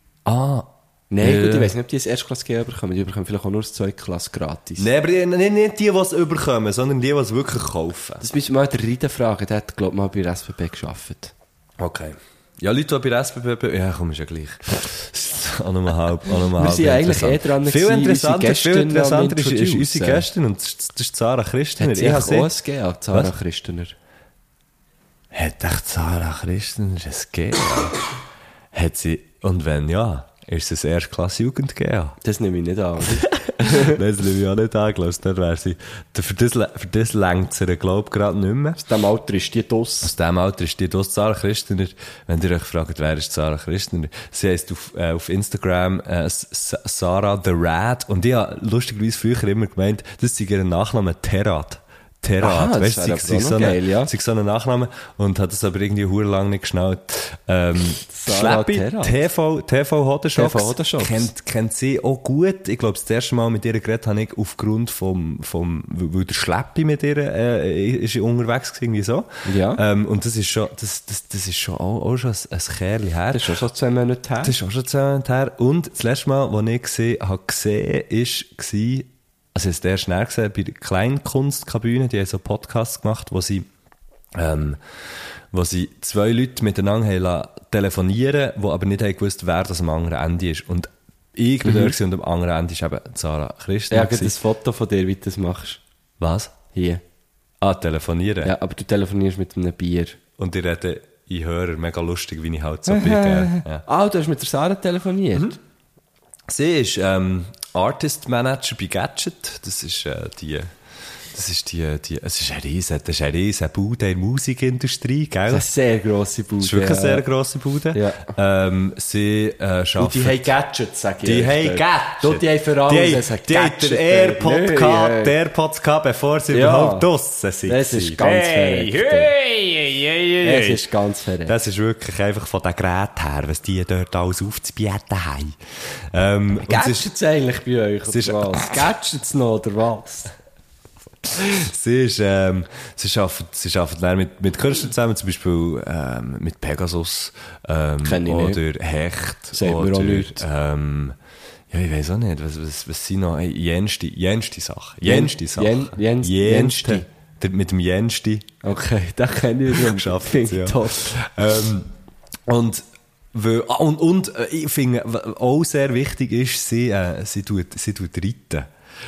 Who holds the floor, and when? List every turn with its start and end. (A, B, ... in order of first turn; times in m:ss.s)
0:00.2-0:01.7 A
0:01.1-0:04.9 B
0:04.8-0:08.2 A
0:08.2-0:11.3 B
0:11.8-0:22.5 A
0:16.5-0:20.2 B
0:21.8-0:23.9 B
0:25.3-0:28.0 A
0:28.7-0:32.2 A
0:32.2-0:34.0 B
0:33.2-0:38.8 A
0:38.8-0:40.1 B
0:40.0-1:13.6 A
0:52.4-0:54.1 B
0:58.1-0:59.2 B
1:00.4-1:01.3 B
1:09.4-1:09.8 B
1:13.3-1:14.6 B
1:14.4-1:23.7 A
1:24.3-1:24.8 A
1:25.5-1:34.4 A
1:31.6-1:31.9 B
1:33.9-1:35.8 B
1:36.2-1:36.5 A
1:36.7-1:37.0 B
1:37.6-1:38.6 A
1:38.4-1:40.2 B
1:40.4-1:43.8 A
1:42.9-1:45.6 B
1:46.5-1:50.7 A
1:51.3-1:55.7 A
1:55.5-1:57.2 B
1:56.6-2:00.5 A
1:57.9-1:58.3 B
2:00.0-2:05.4 B
2:01.2-2:10.8 A
2:06.5-2:07.1 B
2:07.6-2:09.3 B
2:10.4-2:11.6 B
2:11.5-2:15.6 A
2:16.1-2:17.1 A
2:16.6-2:20.3 B
2:18.1-2:18.9 A
2:21.2-2:31.2 A
2:28.0-2:28.6 B
2:29.5-2:30.4 B
2:31.7-2:38.5 A
2:35.0-2:37.1 B
2:38.6-2:41.1 B
2:39.7-2:41.9 A
2:42.5-2:48.7 A